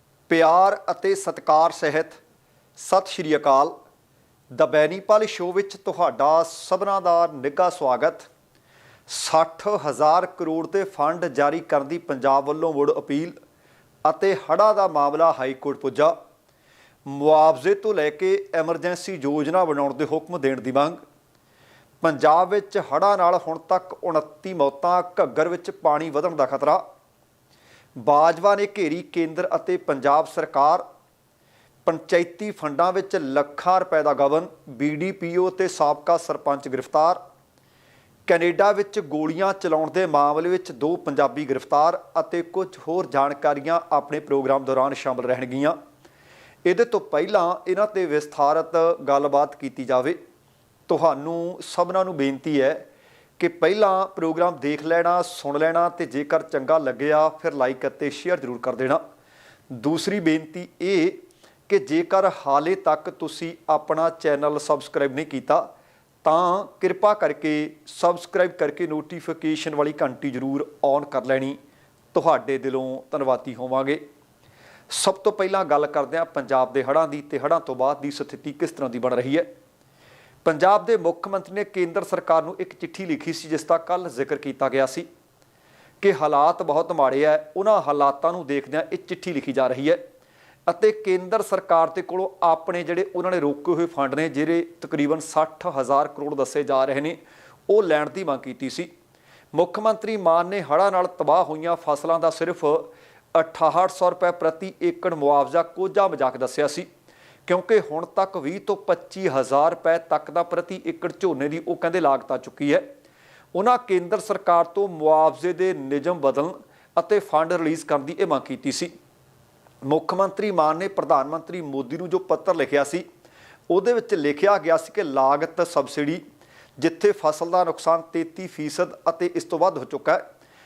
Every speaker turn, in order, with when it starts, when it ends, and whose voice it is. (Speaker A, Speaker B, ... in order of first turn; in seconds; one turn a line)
Speaker A: 0.3-2.2
Speaker A: 2.8-3.7
Speaker A: 4.5-8.3
Speaker A: 9.1-13.4
Speaker A: 14.1-16.1
Speaker A: 17.1-21.0
Speaker A: 22.0-26.8
Speaker A: 28.0-30.8
Speaker A: 31.9-37.2
Speaker A: 38.3-45.8
Speaker A: 46.7-50.2
Speaker A: 50.9-52.9
Speaker A: 53.4-59.0
Speaker A: 59.7-65.7
Speaker A: 66.2-71.6
Speaker A: 72.1-74.0
Speaker A: 74.9-79.5
Speaker A: 80.5-85.1
Speaker A: 86.0-90.0
Speaker A: 90.7-98.9
Speaker A: 99.5-106.9
Speaker A: 107.5-112.8
Speaker A: 113.5-118.9
Speaker A: 119.8-123.0
Speaker A: 123.7-126.2
Speaker A: 126.8-130.2